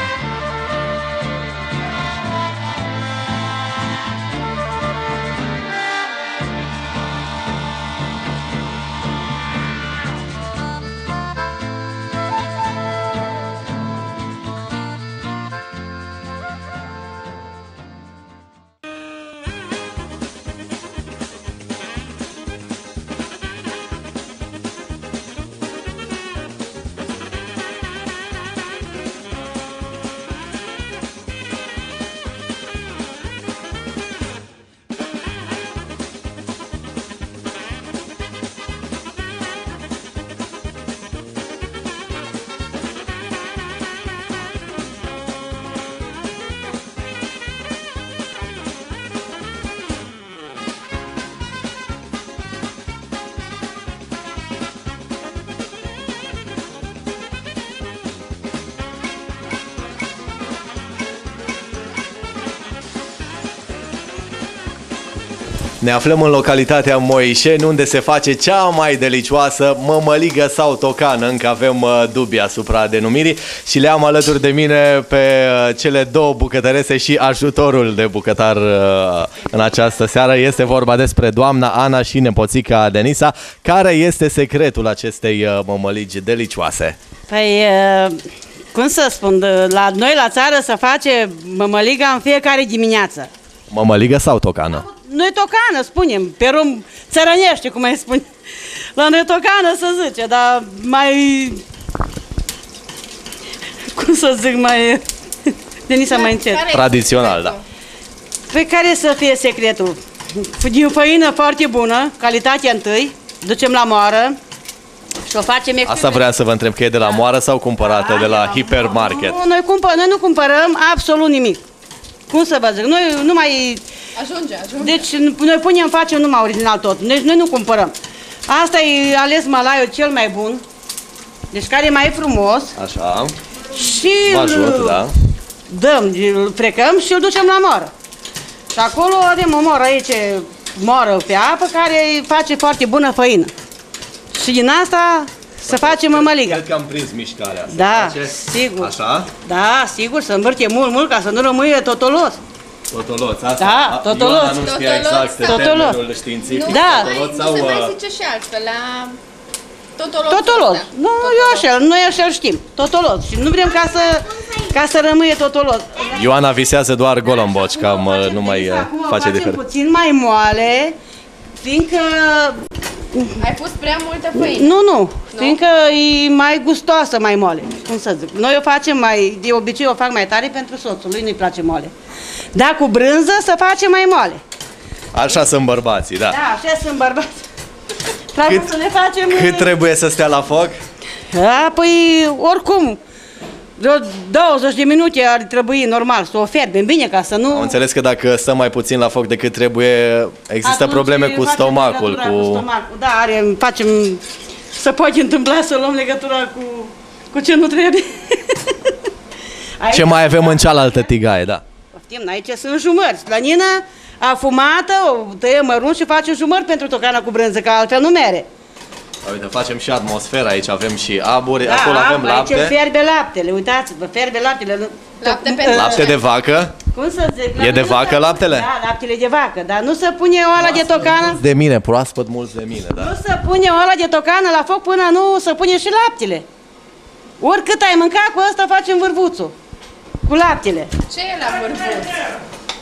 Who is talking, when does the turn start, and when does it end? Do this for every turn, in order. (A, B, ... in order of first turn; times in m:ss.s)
1:05.8-1:27.0 A
1:27.3-1:33.3 B
1:33.7-1:34.8 A
1:34.7-1:41.6 B
1:43.9-1:46.6 B
1:46.1-1:47.6 C
1:46.7-1:47.6 A
1:48.5-1:54.4 B
1:55.2-1:56.3 B
1:55.8-1:59.4 A
1:57.8-2:01.6 B
2:02.3-2:03.8 B
2:04.2-2:05.0 C
2:04.8-2:07.9 B
2:08.5-2:10.6 B
2:11.5-2:12.7 B
2:12.8-2:13.3 A
2:13.7-2:15.0 B
2:14.2-2:15.1 A
2:15.7-2:17.9 B
2:18.7-2:23.5 B
2:24.3-2:26.6 B
2:25.6-2:29.3 A
2:27.7-2:32.4 B
2:32.9-2:38.0 A
2:33.6-2:34.7 B
2:34.6-2:35.7 C
2:35.4-2:36.0 B
2:36.5-2:39.2 C
2:36.6-2:37.1 B
2:40.0-2:41.6 C
2:40.3-2:46.2 B
2:46.1-2:49.6 A
2:47.4-2:51.0 B
2:51.6-2:52.6 B
2:53.1-2:53.4 B
2:53.4-2:54.7 C
2:54.3-3:01.9 B
3:02.5-3:04.4 B
3:05.1-3:06.4 A
3:06.2-3:07.5 B
3:08.3-3:09.7 B
3:08.4-3:08.7 A
3:09.3-3:10.7 A
3:11.3-3:13.0 B
3:13.8-3:17.8 B
3:17.5-3:22.6 A
3:20.6-3:24.2 B
3:24.7-3:29.0 B
3:29.8-3:31.0 B
3:29.9-3:31.6 A
3:31.9-3:38.5 B
3:39.2-3:42.8 A
3:41.6-3:46.1 B
3:45.2-3:46.2 C
3:45.7-3:46.7 A
3:46.9-3:51.4 B
3:47.6-3:48.7 A
3:51.2-3:53.1 A
3:52.9-3:56.4 B
3:57.4-3:59.5 B
4:00.2-4:01.0 B
4:01.0-4:02.2 C